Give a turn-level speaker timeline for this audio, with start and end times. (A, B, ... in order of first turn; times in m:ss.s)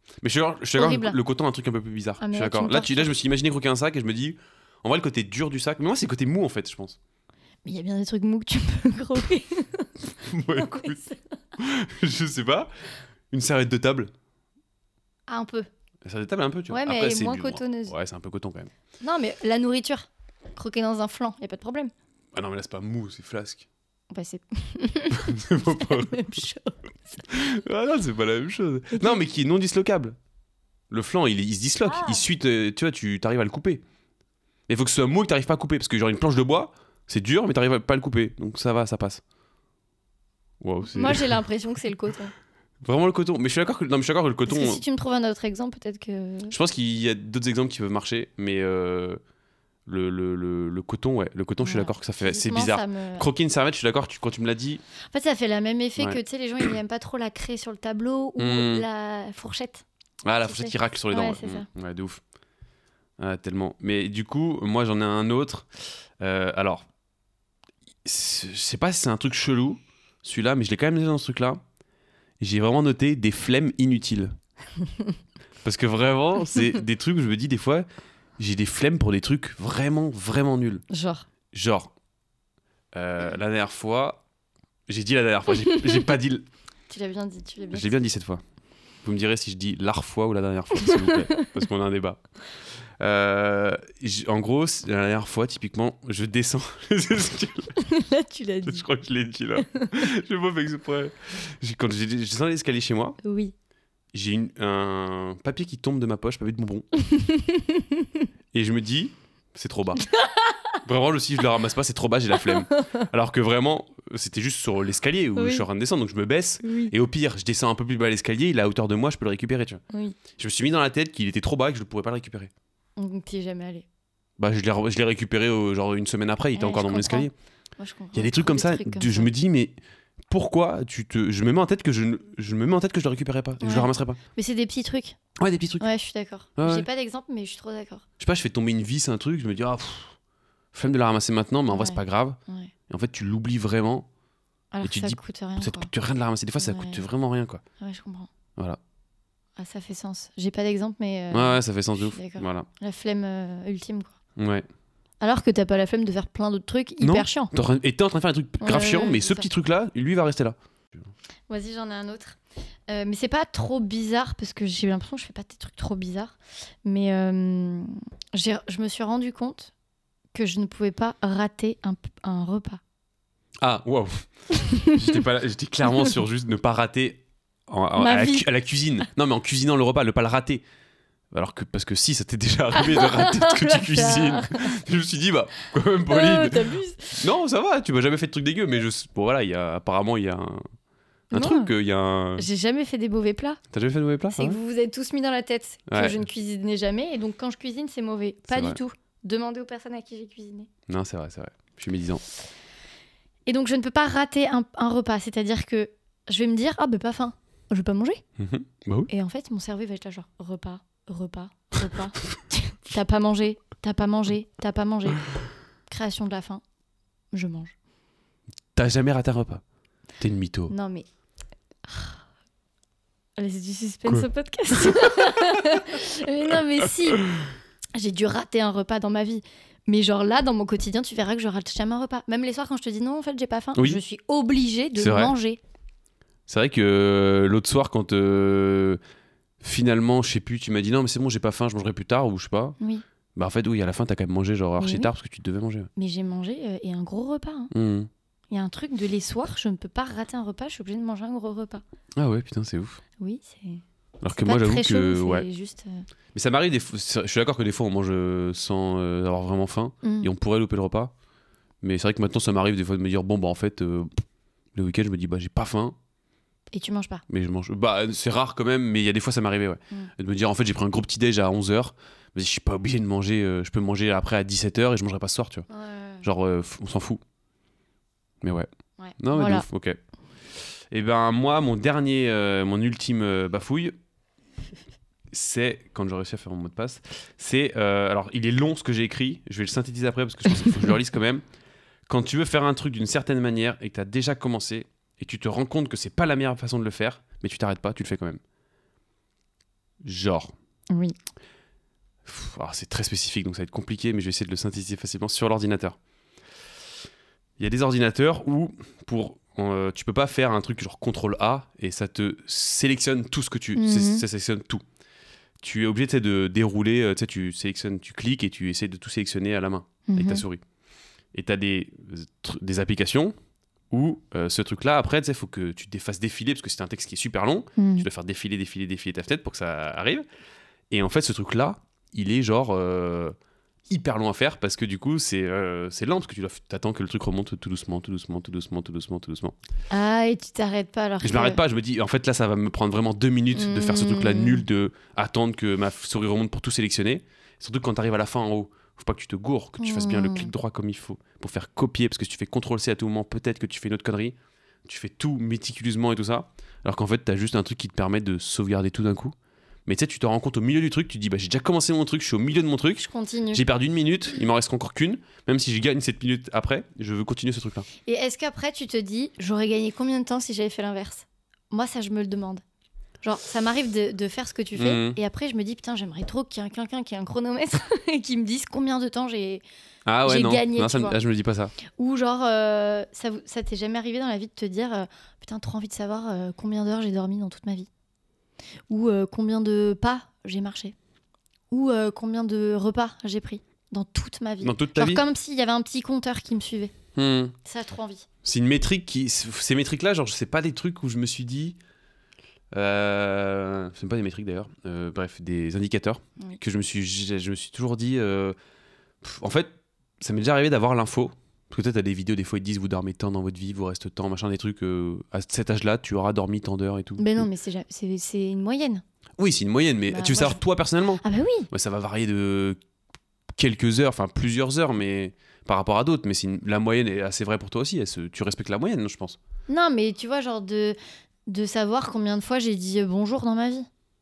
0:00.2-0:07.0 A
0:00.8-0:01.2 B
0:02.2-0:03.1 B
0:07.6-0:11.4 B
0:10.2-0:11.0 A
0:11.6-0:12.7 A
0:13.3-0:14.1 A
0:15.3-0:15.7 B
0:16.0-0:18.7 A
0:16.7-0:18.0 B
0:19.0-0:21.9 B
0:22.3-0:23.7 A
0:24.1-0:27.4 B
0:25.2-0:26.3 A
0:27.3-0:30.2 A
0:28.9-0:29.2 B
0:30.9-0:33.8 A
0:31.9-0:32.2 B
0:34.7-0:39.2 A
0:40.6-0:41.4 A
0:40.9-0:42.3 B
0:42.8-0:44.8 A
0:44.5-0:46.6 B
0:46.5-0:49.2 A
0:49.9-0:54.8 A
0:51.6-0:53.3 B
0:55.1-0:59.8 B
0:58.4-0:58.8 A
1:00.2-1:02.2 A
1:00.4-1:01.7 B
1:03.2-1:05.7 A
1:06.2-1:06.9 A
1:08.0-1:11.6 A
1:12.4-1:14.3 A
1:15.6-1:17.9 A
1:18.4-1:20.8 A
1:20.9-1:21.3 B
1:21.5-1:21.9 A
1:22.9-1:24.2 A
1:24.9-1:26.5 A
1:25.6-1:26.1 B
1:26.9-1:28.0 B
1:27.7-1:28.4 A
1:29.0-1:32.2 A
1:30.8-1:31.6 B
1:33.0-1:37.7 A
1:37.8-1:38.8 B
1:38.6-1:43.2 A
1:39.7-1:40.0 B
1:43.2-1:43.5 B
1:44.1-1:46.9 A
1:47.0-1:48.3 B
1:48.5-1:50.1 A
1:50.0-1:50.8 B
1:50.8-1:59.8 A
1:52.4-1:53.1 B
1:55.4-1:55.6 B
1:56.6-1:56.9 B
1:59.9-2:00.2 B
2:00.4-2:02.5 A
2:03.0-2:03.9 B
2:04.4-2:07.3 A
2:06.6-2:09.3 B
2:08.1-2:09.8 A
2:10.3-2:14.2 A
2:13.6-2:15.2 B
2:15.4-2:15.9 A
2:15.8-2:18.0 B
2:16.6-2:16.9 A
2:18.2-2:20.2 A
2:20.7-2:24.1 A
2:21.7-2:22.7 B
2:24.7-2:25.9 B
2:24.8-2:27.6 A
2:26.6-2:27.0 B
2:27.8-2:28.3 B
2:29.6-2:34.2 B
2:31.3-2:32.7 A
2:34.4-2:34.7 A
2:35.2-2:37.5 B
2:37.0-2:40.6 A
2:38.6-2:39.5 B
2:41.5-2:49.7 B
2:50.3-2:52.8 B
2:53.6-3:00.6 A
2:54.5-2:55.2 B
2:58.0-2:58.5 B
3:01.3-3:10.6 A
3:02.7-3:04.8 B
3:06.1-3:07.3 B
3:11.3-3:11.7 B
3:11.3-3:12.5 A
3:12.4-3:13.6 B
3:13.7-3:14.6 A
3:14.3-3:20.7 B
3:15.9-3:16.2 A
3:18.5-3:18.8 A
3:20.9-3:22.2 A
3:23.5-3:28.2 B
3:28.4-3:29.1 A
3:29.1-3:35.2 B
3:35.9-3:36.6 B
3:37.3-3:37.8 B
3:38.8-3:39.6 A
3:40.2-3:40.7 A
3:40.7-3:41.1 B
3:41.9-3:42.2 B
3:43.4-3:47.2 B
3:48.0-3:55.6 B
3:53.8-3:54.0 A
3:55.0-3:55.3 A
3:56.5-3:59.0 A
3:59.6-4:02.8 A
4:03.4-4:05.9 A
4:04.8-4:05.1 B
4:06.0-4:07.7 B
4:07.7-4:08.1 A
4:08.5-4:11.8 B
4:12.2-4:13.0 A
4:13.2-4:16.1 B
4:14.2-4:15.5 A
4:16.3-4:21.1 A
4:20.0-4:20.3 B
4:21.8-4:24.2 A
4:24.8-4:26.0 A
4:26.7-4:27.2 B
4:27.3-4:35.7 A
4:35.7-4:36.3 B
4:36.2-4:37.2 A
4:38.4-4:38.7 A
4:39.0-4:39.7 B
4:39.2-4:40.0 A
4:40.9-4:43.9 A
4:45.3-4:51.4 A
4:52.1-4:58.4 A
5:00.0-5:00.5 A
5:02.2-5:06.0 A
5:07.6-5:14.8 A
5:13.8-5:14.2 B
5:15.6-5:20.6 A
5:20.1-5:20.4 B
5:21.3-5:23.3 A
5:23.9-5:30.2 A
5:27.8-5:28.1 B
5:30.9-5:33.4 A
5:33.9-5:39.6 A
5:39.9-5:41.6 B
5:41.2-5:59.3 A
5:43.5-5:44.6 B
5:49.8-5:50.5 B
5:59.9-6:07.9 A
6:03.0-6:03.6 B
6:08.1-6:12.6 B
6:13.2-6:19.6 B
6:14.8-6:15.2 A
6:20.1-6:21.7 A
6:20.2-6:21.2 B
6:22.0-6:27.9 B
6:28.9-6:31.0 B
6:31.7-6:36.9 B
6:34.6-6:35.2 A
6:37.2-6:37.6 A
6:37.6-6:38.3 B
6:38.4-6:41.8 A
6:42.7-6:48.6 A
6:49.2-6:57.4 A
6:57.2-6:59.0 B
6:59.4-7:02.8 A
7:00.1-7:00.6 B
7:01.2-7:01.7 B
7:03.6-7:09.4 A
7:09.7-7:13.9 B